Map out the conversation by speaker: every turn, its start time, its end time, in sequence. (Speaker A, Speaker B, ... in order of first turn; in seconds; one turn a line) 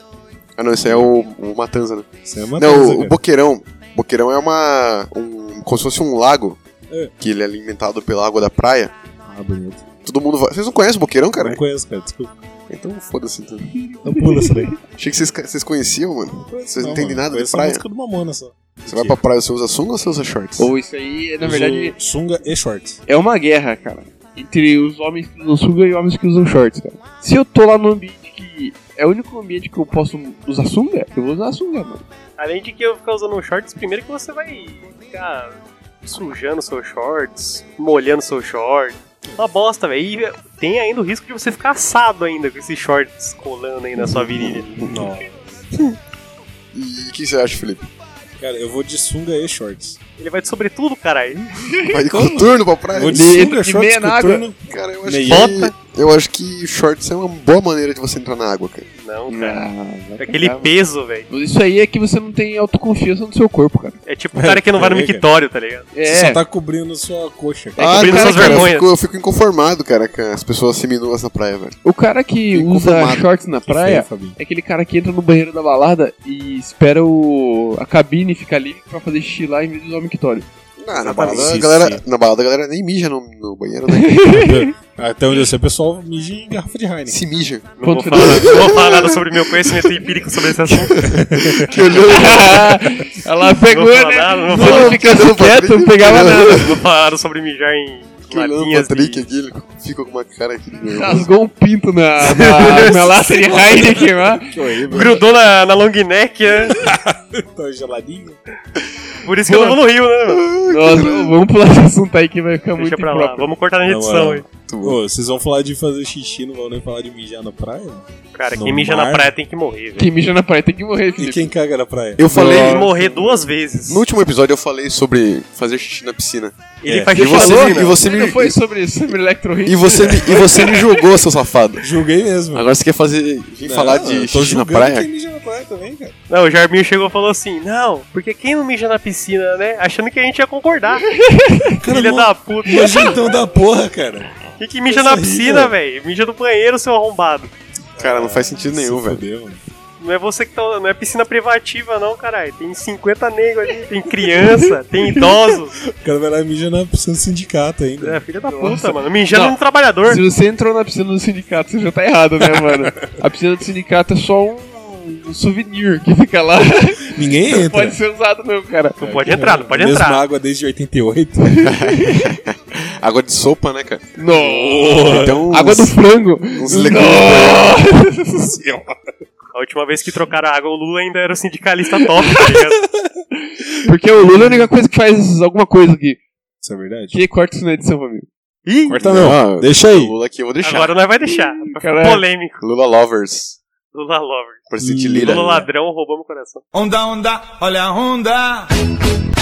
Speaker A: 0.6-6.6
Speaker B: 0.8-1.1
Speaker B: 2.2-3.2
Speaker A: 7.2-8.9
Speaker B: 9.2-9.8
Speaker A: 10.0-11.6
Speaker B: 11.3-12.3
Speaker A: 12.7-13.9
Speaker B: 14.0-14.8
Speaker C: 14.2-14.6
Speaker A: 14.9-17.8
Speaker B: 16.5-19.2
Speaker A: 18.9-20.7
Speaker C: 20.6-21.9
Speaker B: 21.4-23.0
Speaker C: 23.1-32.0
Speaker D: 32.4-44.7
Speaker A: 44.0-45.0
Speaker B: 44.8-45.6
Speaker A: 46.7-47.9
Speaker B: 48.4-50.0
Speaker D: 50.2-51.7
Speaker C: 51.6-51.9
Speaker A: 51.9-53.4
Speaker B: 52.1-55.5
Speaker C: 53.1-54.5
Speaker A: 54.7-58.8
Speaker D: 55.3-55.7
Speaker D: 59.0-59.6
Speaker C: 59.3-60.7
Speaker D: 60.2-61.3
Speaker C: 61.3-64.0
Speaker D: 64.1-65.9
Speaker B: 64.3-65.2
Speaker C: 65.9-66.4
Speaker B: 66.0-68.6
Speaker D: 67.8-68.9
Speaker A: 67.8-71.8
Speaker C: 71.8-80.5
Speaker A: 72.5-73.3
Speaker B: 73.7-74.4
Speaker A: 80.8-84.3
Speaker B: 81.0-82.0
Speaker D: 81.0-81.6
Speaker C: 83.9-84.7
Speaker B: 84.3-87.2
Speaker A: 87.1-89.8
Speaker D: 87.8-91.1
Speaker C: 87.8-88.5
Speaker A: 90.9-92.8
Speaker B: 91.0-91.8
Speaker C: 92.1-96.7
Speaker D: 93.7-95.0
Speaker A: 94.5-96.8
Speaker D: 96.3-99.2
Speaker A: 98.3-101.3
Speaker C: 100.8-104.5
Speaker D: 102.3-103.6
Speaker B: 104.3-105.2
Speaker D: 104.9-106.8
Speaker B: 106.7-108.4
Speaker D: 109.2-110.5
Speaker A: 110.3-111.3
Speaker C: 110.7-113.5
Speaker D: 112.8-114.5
Speaker B: 113.8-119.3
Speaker A: 114.7-115.0
Speaker D: 118.3-120.1
Speaker C: 120.0-121.5
Speaker B: 121.2-123.3
Speaker A: 122.2-122.9
Speaker D: 122.3-124.0
Speaker A: 123.9-126.6
Speaker D: 126.8-128.0
Speaker B: 126.8-127.1
Speaker A: 127.2-128.6
Speaker C: 127.2-130.7
Speaker A: 129.6-131.9
Speaker D: 130.2-130.6
Speaker B: 131.8-132.7
Speaker A: 132.5-135.1
Speaker B: 133.6-136.1
Speaker D: 136.3-141.1
Speaker C: 141.2-141.8
Speaker B: 141.8-145.7
Speaker D: 141.8-143.3
Speaker D: 144.6-147.5
Speaker B: 147.9-149.6
Speaker A: 148.0-149.2
Speaker D: 150.0-155.8
Speaker B: 155.1-158.2
Speaker D: 158.0-160.2
Speaker C: 158.4-169.0
Speaker B: 162.4-163.0
Speaker B: 167.1-168.0
Speaker D: 169.0-170.2
Speaker B: 169.0-171.9
Speaker A: 171.6-174.1
Speaker C: 174.2-178.5
Speaker B: 174.3-175.5
Speaker A: 175.0-176.0
Speaker A: 176.6-177.8
Speaker B: 176.7-177.0
Speaker B: 178.4-179.0
Speaker D: 179.5-182.8
Speaker B: 182.9-184.7
Speaker C: 183.8-186.2
Speaker B: 186.6-187.2
Speaker C: 187.1-188.3
Speaker D: 188.7-189.0
Speaker B: 188.9-190.1
Speaker A: 189.0-191.0
Speaker D: 190.6-192.6
Speaker C: 191.6-192.2
Speaker A: 192.6-193.6
Speaker D: 193.9-194.6
Speaker A: 194.7-195.7
Speaker B: 194.8-195.4
Speaker D: 195.2-196.6
Speaker E: 196.7-198.7